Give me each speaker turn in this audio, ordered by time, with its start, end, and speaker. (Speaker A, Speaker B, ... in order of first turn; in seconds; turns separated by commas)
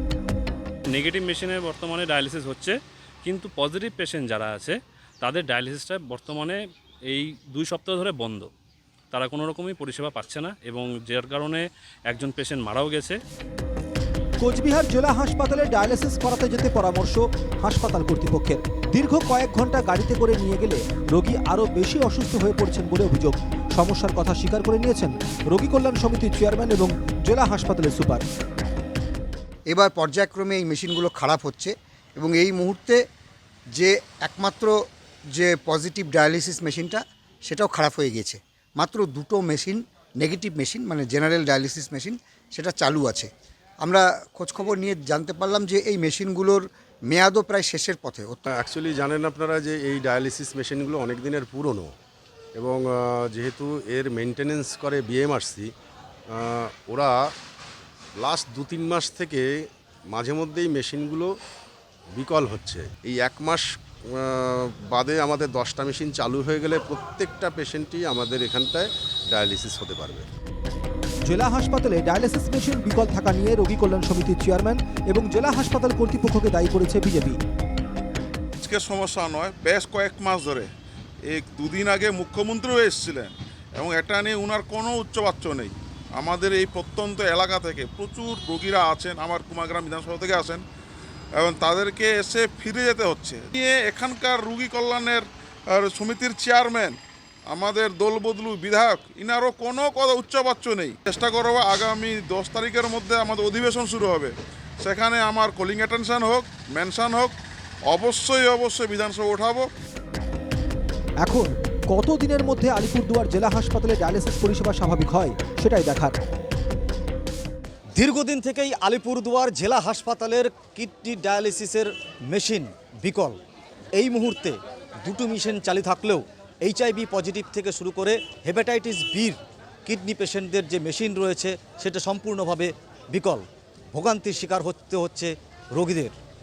Speaker A: 0.9-6.6, Speaker A: 7.1-8.5, Speaker A: 9.1-13.2, Speaker B: 14.4-28.2, Speaker C: 29.7-33.0, Speaker C: 33.8-34.7, Speaker C: 35.3-43.3, Speaker C: 43.8-48.4, Speaker D: 48.5-51.9, Speaker D: 52.5-55.7, Speaker D: 56.3-57.1, Speaker D: 58.2-59.5, Speaker D: 60.1-61.3, Speaker D: 62.1-70.3, Speaker B: 71.3-77.4, Speaker E: 78.6-80.7, Speaker E: 81.3-90.6, Speaker E: 91.4-97.0, Speaker E: 97.5-107.3, Speaker E: 107.9-109.7, Speaker B: 111.2-116.1, Speaker F: 118.0-123.4, Speaker F: 123.9-136.2